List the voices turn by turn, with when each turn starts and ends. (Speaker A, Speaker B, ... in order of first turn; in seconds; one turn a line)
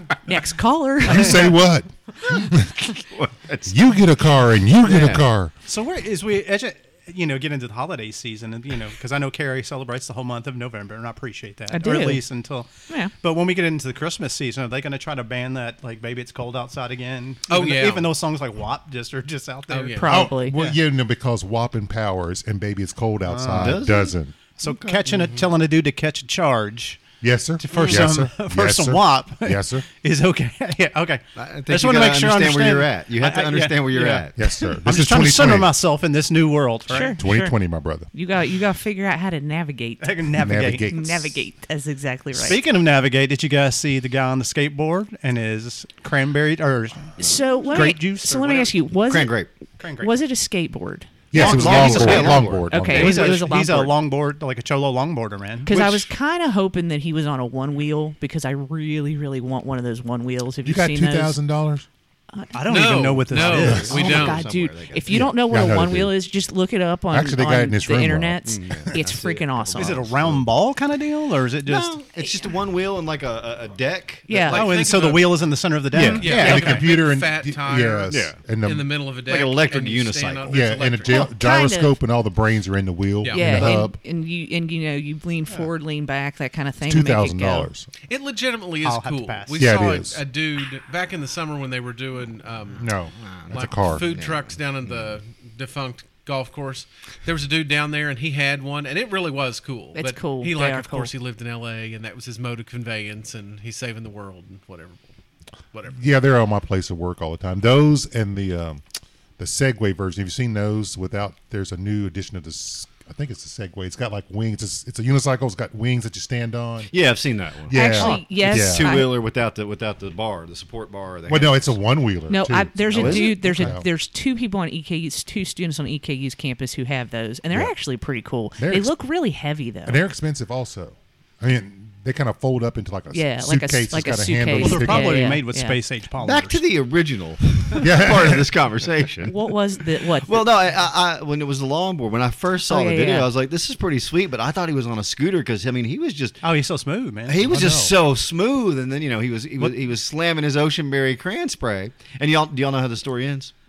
Speaker A: 0.2-1.6
Speaker B: 1.0-2.7
Speaker C: 2.2-3.8
Speaker B: 3.7-5.5
Speaker C: 4.9-5.2
Speaker D: 5.1-20.8
Speaker A: 11.7-12.2
Speaker E: 17.5-18.1
Speaker E: 19.7-20.1
Speaker A: 20.0-20.6
Speaker B: 20.1-24.9
Speaker D: 23.2-23.8
Speaker C: 23.6-24.1
Speaker D: 24.6-37.2
Speaker C: 24.7-25.5
Speaker B: 27.2-29.9
Speaker C: 31.4-34.4
Speaker B: 34.4-35.8
Speaker A: 36.9-37.5
Speaker B: 37.2-38.1
Speaker A: 38.1-42.6
Speaker D: 40.0-40.9
Speaker B: 40.3-41.5
Speaker D: 42.3-48.8
Speaker A: 47.2-51.1
Speaker C: 49.1-49.5
Speaker D: 49.8-50.1
Speaker B: 51.3-53.3
Speaker C: 51.3-53.5
Speaker D: 51.3-55.7
Speaker A: 51.8-54.0
Speaker A: 55.7-61.4
Speaker C: 55.7-56.1
Speaker B: 60.6-61.9
Speaker D: 62.5-64.0
Speaker E: 62.7-64.5
Speaker C: 63.3-65.2
Speaker B: 63.6-64.1
Speaker A: 63.9-70.0
Speaker B: 65.1-66.1
Speaker B: 67.1-69.0
Speaker C: 68.5-70.5
Speaker D: 69.8-72.0
Speaker C: 71.7-74.3
Speaker A: 72.2-72.5
Speaker A: 74.3-74.7
Speaker D: 74.3-76.9
Speaker E: 74.5-75.4
Speaker C: 75.9-76.3
Speaker B: 75.9-78.9
Speaker E: 76.0-81.3
Speaker A: 76.2-76.8
Speaker C: 78.1-78.4
Speaker C: 79.3-80.8
Speaker B: 80.5-84.0
Speaker A: 81.1-82.0
Speaker E: 83.2-83.7
Speaker A: 83.3-87.7
Speaker B: 86.8-87.9
Speaker E: 88.1-92.9
Speaker D: 88.8-89.7
Speaker B: 89.6-90.2
Speaker B: 92.8-94.1
Speaker C: 93.3-95.1
Speaker E: 93.5-105.1
Speaker A: 100.0-101.1
Speaker E: 105.7-106.0
Speaker B: 105.9-108.8
Speaker B: 109.4-116.9
Speaker C: 116.9-121.7
Speaker B: 117.7-119.0
Speaker A: 117.7-119.1
Speaker B: 121.3-123.9
Speaker A: 122.3-130.0
Speaker C: 122.9-123.8
Speaker B: 128.6-128.9
Speaker B: 129.9-135.3
Speaker A: 133.1-135.8
Speaker D: 134.6-136.6
Speaker C: 136.2-139.5
Speaker B: 137.8-138.5
Speaker A: 139.2-140.4
Speaker C: 140.1-146.4
Speaker A: 142.7-143.3
Speaker D: 146.4-147.5
Speaker C: 147.3-153.5
Speaker B: 147.4-147.9